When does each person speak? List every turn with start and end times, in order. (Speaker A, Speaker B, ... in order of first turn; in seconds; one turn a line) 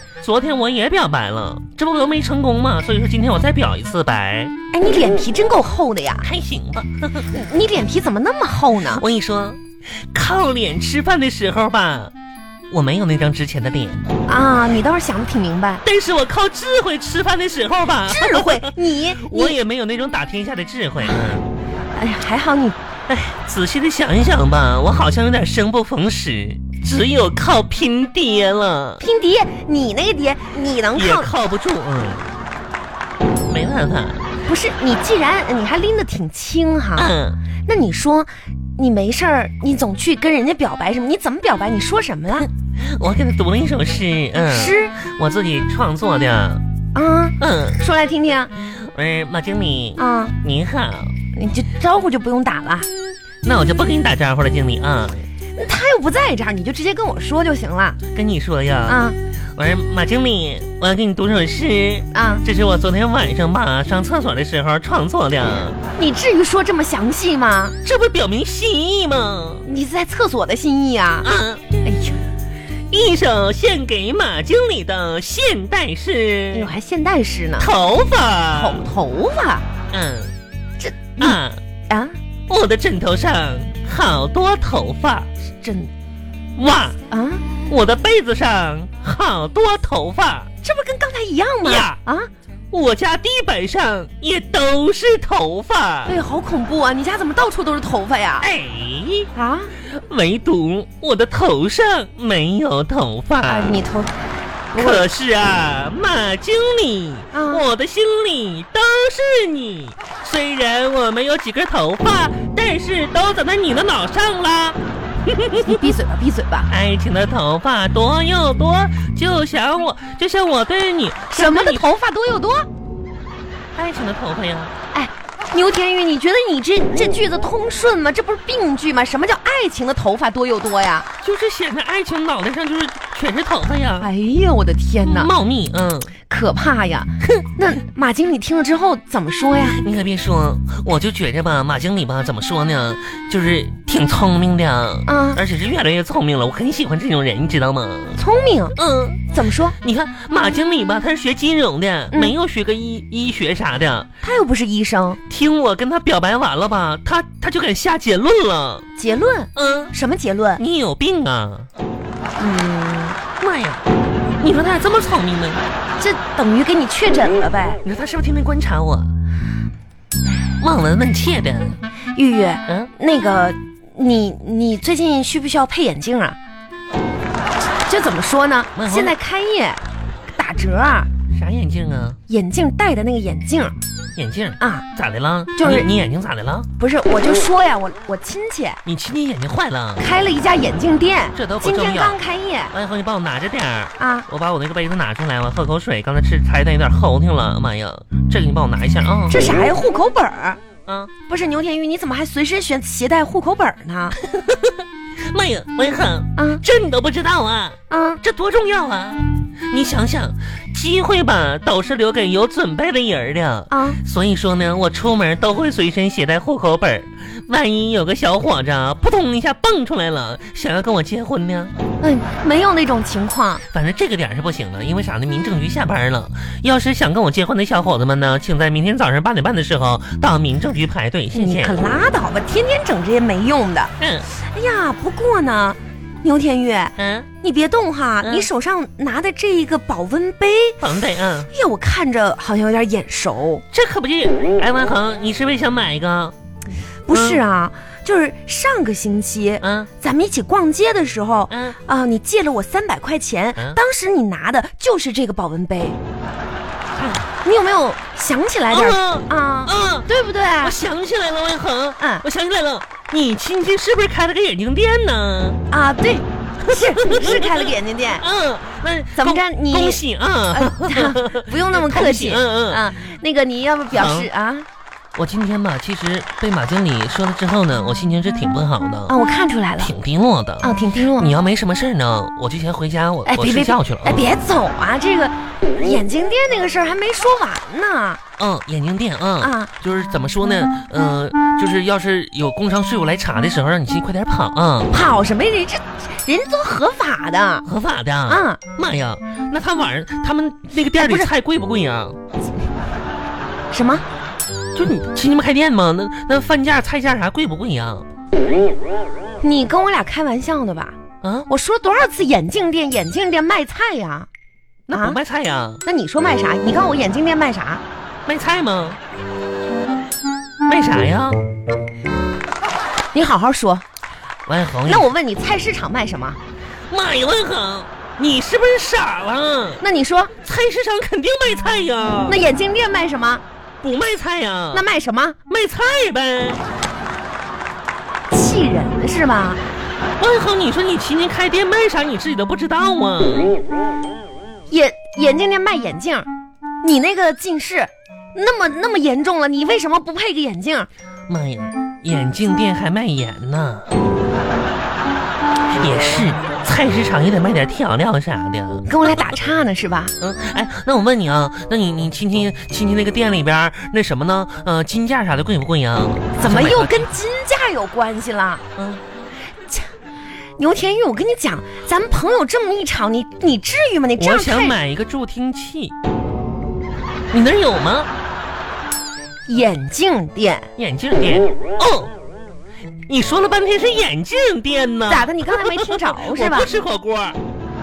Speaker A: 0.2-4.5
Speaker B: 4.7-6.3
Speaker A: 6.2-7.3
Speaker B: 7.3-9.0
Speaker A: 8.9-12.1
Speaker A: 12.7-14.0
Speaker B: 14.3-15.8
Speaker A: 15.8-21.5
Speaker B: 18.1-19.6
Speaker B: 21.9-22.8
Speaker A: 23.1-29.0
Speaker B: 29.0-31.3
Speaker A: 30.9-32.3
Speaker A: 33.4-34.2
Speaker B: 34.5-37.1
Speaker A: 37.0-37.4
Speaker B: 37.6-42.5
Speaker A: 42.8-46.6
Speaker B: 44.4-44.9
Speaker B: 46.9-48.5
Speaker A: 47.4-47.8
Speaker A: 48.6-51.1
Speaker B: 50.0-50.3
Speaker B: 51.3-52.9
Speaker A: 53.4-55.3
Speaker B: 55.5-58.0
Speaker A: 58.1-59.0
Speaker B: 58.9-59.2
Speaker A: 59.5-65.8
Speaker B: 62.1-62.4
Speaker B: 66.0-67.8
Speaker A: 67.8-69.7
Speaker B: 69.6-71.3
Speaker A: 71.2-71.7
Speaker B: 71.8-72.2
Speaker A: 72.9-76.7
Speaker B: 76.5-77.7
Speaker A: 77.6-78.9
Speaker B: 78.5-79.6
Speaker A: 79.9-80.3
Speaker B: 80.8-82.1
Speaker A: 81.2-81.6
Speaker A: 82.5-85.3
Speaker B: 85.4-85.9
Speaker A: 86.6-87.0
Speaker B: 87.1-87.4
Speaker A: 87.7-90.5
Speaker B: 90.6-92.3
Speaker A: 91.6-92.0
Speaker A: 92.7-96.2
Speaker B: 96.1-98.5
Speaker A: 98.4-103.8
Speaker B: 99.3-99.7
Speaker B: 103.4-104.1
Speaker B: 104.7-105.1
Speaker A: 104.7-115.9
Speaker B: 107.3-107.6
Speaker B: 115.6-116.7
Speaker A: 116.7-121.8
Speaker B: 121.3-122.7
Speaker A: 123.7-124.7
Speaker B: 124.9-131.1
Speaker A: 131.2-134.1
Speaker B: 134.0-135.3
Speaker A: 135.0-136.1
Speaker B: 136.3-139.8
Speaker A: 139.8-148.2
Speaker B: 145.1-145.4
Speaker B: 148.2-148.8
Speaker A: 148.8-154.1
Speaker B: 149.3-149.7
Speaker B: 154.2-155.2
Speaker A: 155.3-158.8
Speaker B: 158.9-160.6
Speaker A: 159.5-159.9
Speaker A: 160.6-161.7
Speaker B: 162.4-163.2
Speaker A: 163.4-165.6
Speaker B: 166.0-167.8
Speaker A: 167.8-169.1
Speaker A: 170.6-171.8
Speaker B: 172.1-176.4
Speaker B: 177.9-179.8
Speaker A: 178.7-179.1
Speaker B: 180.3-181.1
Speaker A: 181.3-182.2
Speaker B: 182.3-183.7
Speaker A: 184.2-186.7
Speaker B: 184.6-184.8
Speaker B: 185.6-185.9
Speaker B: 186.8-188.8
Speaker A: 188.8-190.1
Speaker B: 190.0-192.7
Speaker A: 191.3-192.2
Speaker A: 192.7-199.4
Speaker B: 194.0-194.3
Speaker B: 199.3-200.6
Speaker A: 200.9-201.1
Speaker B: 201.3-204.2
Speaker A: 204.2-221.7
Speaker B: 206.3-206.6
Speaker B: 207.9-208.2
Speaker B: 213.7-214.0
Speaker B: 222.0-223.6
Speaker A: 223.7-231.8
Speaker B: 231.3-240.8
Speaker A: 234.0-234.3
Speaker A: 237.0-237.3
Speaker A: 238.2-238.5
Speaker A: 240.8-241.5
Speaker B: 241.5-243.6
Speaker A: 243.7-246.3
Speaker B: 247.1-256.0
Speaker A: 247.1-247.4
Speaker A: 249.6-249.9
Speaker A: 251.5-251.8
Speaker A: 256.9-257.3
Speaker B: 257.4-260.8
Speaker A: 258.7-260.1
Speaker A: 260.6-265.6
Speaker B: 262.0-262.2
Speaker B: 265.7-268.2
Speaker A: 266.6-272.9
Speaker B: 269.2-274.7
Speaker A: 273.9-274.3
Speaker A: 275.1-279.1
Speaker B: 279.1-279.9
Speaker A: 279.8-284.2
Speaker B: 280.6-281.3
Speaker B: 283.2-288.2
Speaker A: 288.4-295.0
Speaker B: 289.4-289.7
Speaker B: 294.9-297.6
Speaker A: 297.6-302.2
Speaker B: 298.3-298.6
Speaker B: 300.9-301.3
Speaker B: 303.7-304.0
Speaker A: 304.7-308.1
Speaker B: 309.4-310.9
Speaker A: 311.2-311.5
Speaker B: 311.5-314.3
Speaker A: 314.9-315.8
Speaker B: 314.9-315.2
Speaker B: 315.8-317.8
Speaker A: 318.2-319.0
Speaker A: 320.7-321.4
Speaker B: 323.1-323.8
Speaker A: 324.5-325.1
Speaker B: 324.9-326.4
Speaker A: 326.9-329.8
Speaker B: 329.8-330.3
Speaker A: 330.4-332.4
Speaker B: 332.2-333.4
Speaker A: 333.8-334.9
Speaker B: 334.7-335.4
Speaker A: 335.5-336.6
Speaker B: 338.3-339.6
Speaker A: 340.2-343.6
Speaker B: 344.7-346.3
Speaker B: 346.8-350.9
Speaker A: 351.3-353.9
Speaker A: 355.7-358.9
Speaker B: 358.9-360.1
Speaker A: 360.2-367.1
Speaker B: 366.4-368.6
Speaker A: 368.8-369.0
Speaker B: 370.6-374.8
Speaker A: 374.2-375.9
Speaker A: 377.3-378.1
Speaker B: 379.5-380.7
Speaker A: 380.8-382.1
Speaker A: 383.1-387.4
Speaker B: 385.1-386.7